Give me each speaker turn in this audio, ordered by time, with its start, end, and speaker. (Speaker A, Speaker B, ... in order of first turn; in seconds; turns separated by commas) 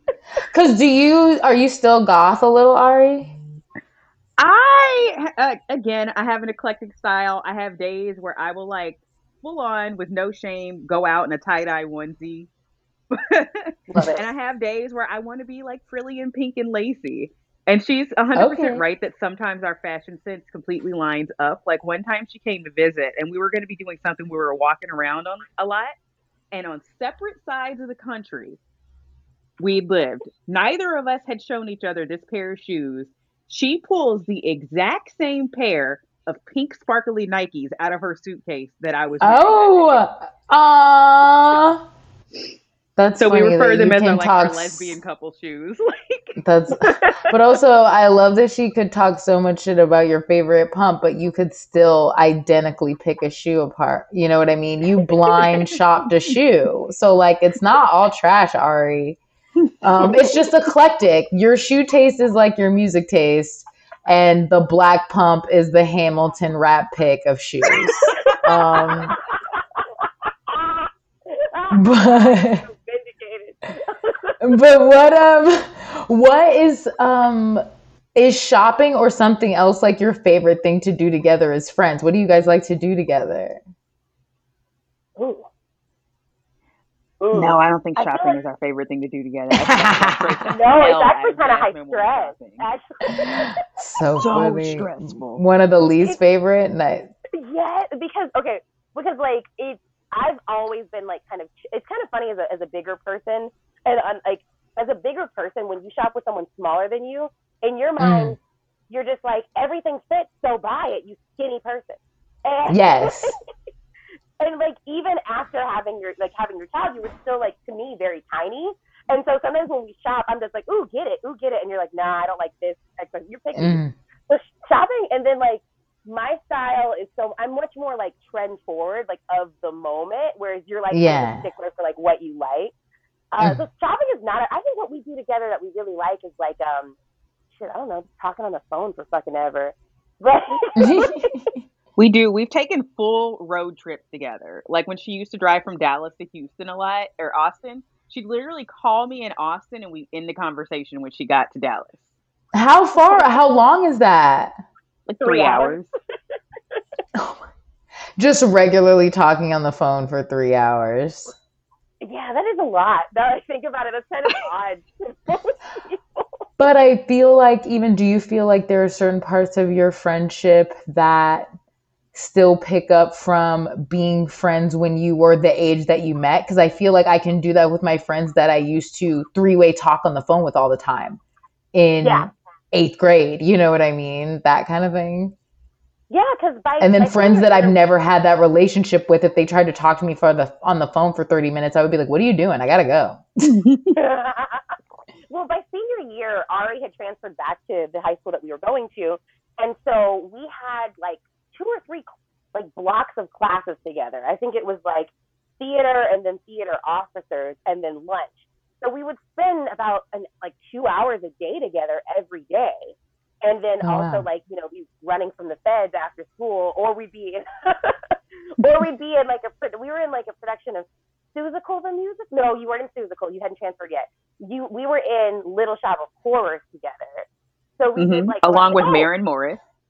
Speaker A: 0.5-3.3, Speaker B: 4.4-12.5, Speaker B: 13.1-25.9, Speaker C: 13.9-14.2, Speaker A: 18.3-18.8, Speaker B: 26.5-28.6, Speaker B: 29.6-40.0, Speaker A: 39.2-41.8, Speaker A: 43.0-45.0, Speaker B: 43.2-45.9, Speaker A: 46.4-59.2, Speaker C: 46.8-47.3, Speaker A: 59.8-69.2, Speaker C: 68.1-74.5, Speaker A: 71.7-72.6, Speaker A: 74.4-77.6, Speaker A: 78.1-83.6, Speaker C: 85.2-85.5, Speaker C: 87.2-88.4, Speaker B: 87.3-92.7, Speaker A: 89.6-90.5, Speaker C: 90.5-93.6, Speaker A: 93.2-97.1, Speaker B: 94.2-95.4, Speaker C: 97.3-108.4, Speaker A: 108.0-108.3, Speaker C: 108.9-113.3, Speaker A: 112.7-113.3, Speaker C: 114.4-132.7, Speaker A: 123.5-123.9, Speaker A: 130.9-131.4, Speaker C: 133.3-136.9, Speaker C: 137.5-141.4, Speaker A: 140.8-141.6, Speaker B: 142.0-152.1, Speaker A: 152.5-154.6, Speaker C: 152.9-153.3, Speaker B: 155.1-155.9, Speaker C: 155.2-155.8, Speaker A: 157.2-157.4, Speaker A: 158.2-161.3, Speaker C: 162.0-166.2, Speaker A: 166.6-171.5, Speaker A: 172.1-181.2, Speaker A: 181.7-185.3, Speaker C: 182.0-182.3, Speaker C: 186.1-187.8, Speaker A: 186.8-193.2, Speaker B: 193.4-193.9, Speaker C: 193.9-194.7, Speaker C: 195.3-227.3, Speaker A: 213.8-214.2, Speaker C: 227.8-229.1, Speaker B: 227.9-229.6